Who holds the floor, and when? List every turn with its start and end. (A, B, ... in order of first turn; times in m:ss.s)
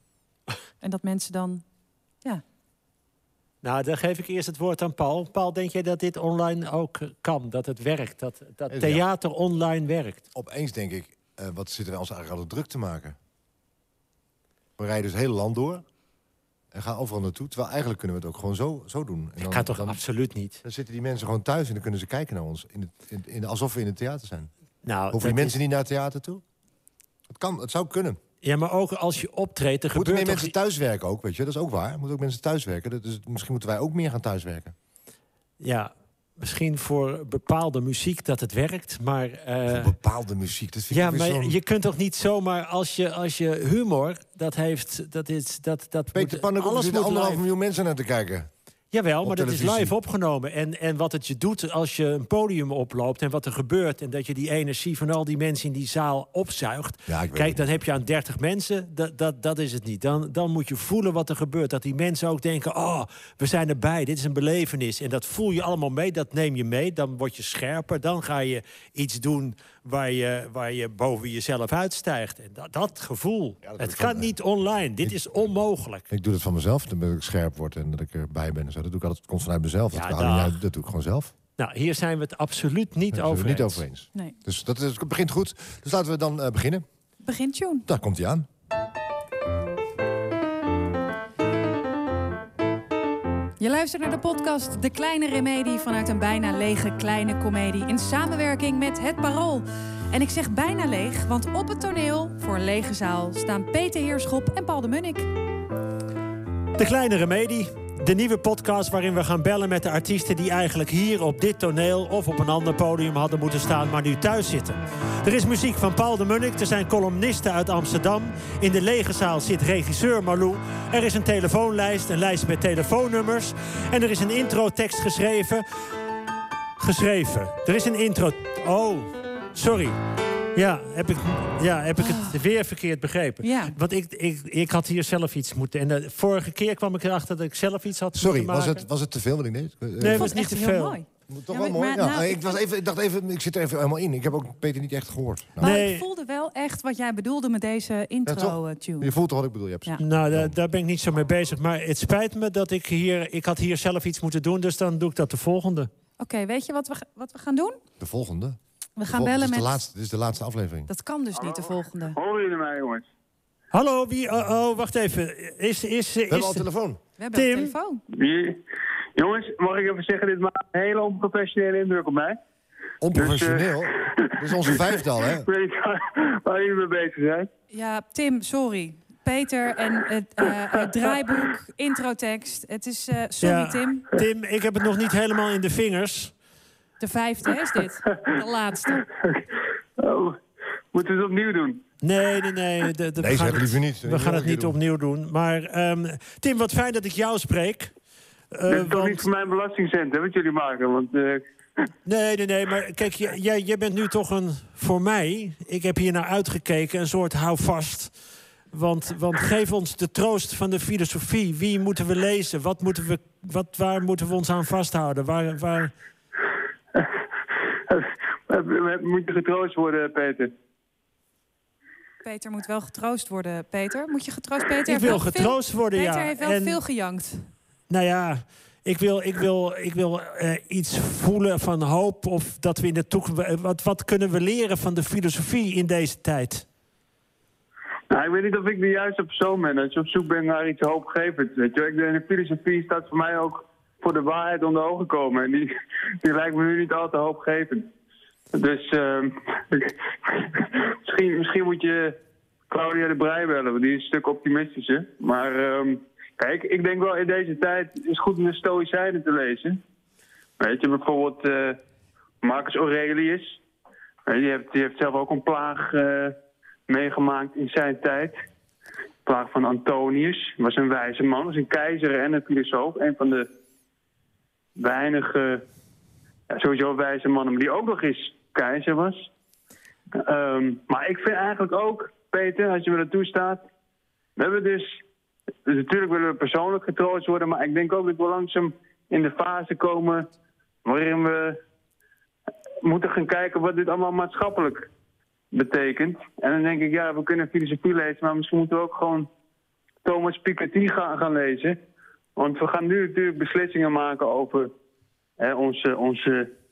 0:00.8-0:01.6 A
0:03.6-0:10.2 B
0:08.7-0:09.0 C
0:10.3-0:13.2 C
0:14.8-0:15.8 C
0:16.7-0:20.0 C
0:19.4-0:20.6 B
0:20.6-0:24.5 C
0:24.8-0:25.6 B
0:25.1-0:26.4 C
0:27.3-0:28.2 C
0:28.4-0:30.5 B
0:29.9-0:34.7 C
0:35.6-0:39.9 B
0:39.7-0:41.6 C
0:40.9-0:47.4 B
0:46.1-0:48.5 C
0:48.9-1:16.1 B
0:49.2-0:49.9 C
0:57.1-0:57.8 C
1:13.6-1:14.3 C
1:16.1-1:21.3 C
1:19.9-1:20.6 B
1:21.6-1:23.8 B
1:23.1-1:26.8 C
1:27.2-1:27.8 A
1:27.8-1:28.5 C
1:33.6-1:45.3 A
1:46.8-2:05.6 B
2:06.8-2:10.0 B
2:10.5-2:18.8 B
2:12.0-2:12.4 A
2:13.4-2:13.7 A
2:18.1-2:20.4 C
2:20.0-2:21.0 B
2:20.1-2:22.5 A
2:21.3-2:25.8 C
2:25.6-2:26.0 B
2:25.6-2:29.1 A
2:28.2-2:30.6 C
2:30.0-2:35.9 B
2:36.2-2:37.8 A
2:38.0-2:40.9 C
2:39.0-2:39.8 A
2:40.9-2:42.2 A
2:41.3-2:43.0 D
2:43.7-2:46.6 B
2:46.3-2:47.0 C
2:47.2-2:48.0 A
2:47.3-2:47.7 B
2:48.1-2:48.6 D
2:49.2-2:52.4 D
2:53.0-2:55.5 C
2:53.2-2:57.5 D
2:57.7-3:04.0 A
3:03.4-3:06.3 B
3:07.0-3:09.0 A
3:08.1-3:08.4 D
3:09.1-3:10.4 D
3:10.9-3:11.8 D
3:12.0-3:17.9 B
3:13.2-3:14.8 C
3:18.5-3:19.2 B
3:18.7-3:21.4 D
3:22.0-3:28.1 B
3:28.7-3:35.9 B
3:37.9-3:40.5 D
3:42.2-3:47.5 A
3:44.9-3:46.8 B
3:47.9-3:56.6 B
3:58.1-4:05.7 D
4:06.2-4:07.9 D
4:08.5-4:12.2 D
4:12.7-4:19.8 D
4:20.6-4:21.8 D
4:22.4-4:23.6 D
4:24.2-4:26.4 D
4:26.9-4:28.4 D
4:29.2-4:33.5 D
4:34.8-4:35.6 D
4:36.5-4:39.3 D
4:40.1-4:43.6 D
4:44.4-4:45.0 D
4:45.6-4:50.3 D
4:50.8-4:51.6 D
4:52.8-4:54.9 D
4:55.5-4:59.3 D
5:00.0-5:01.8 D
5:02.4-5:04.7 D
5:05.4-5:06.5 D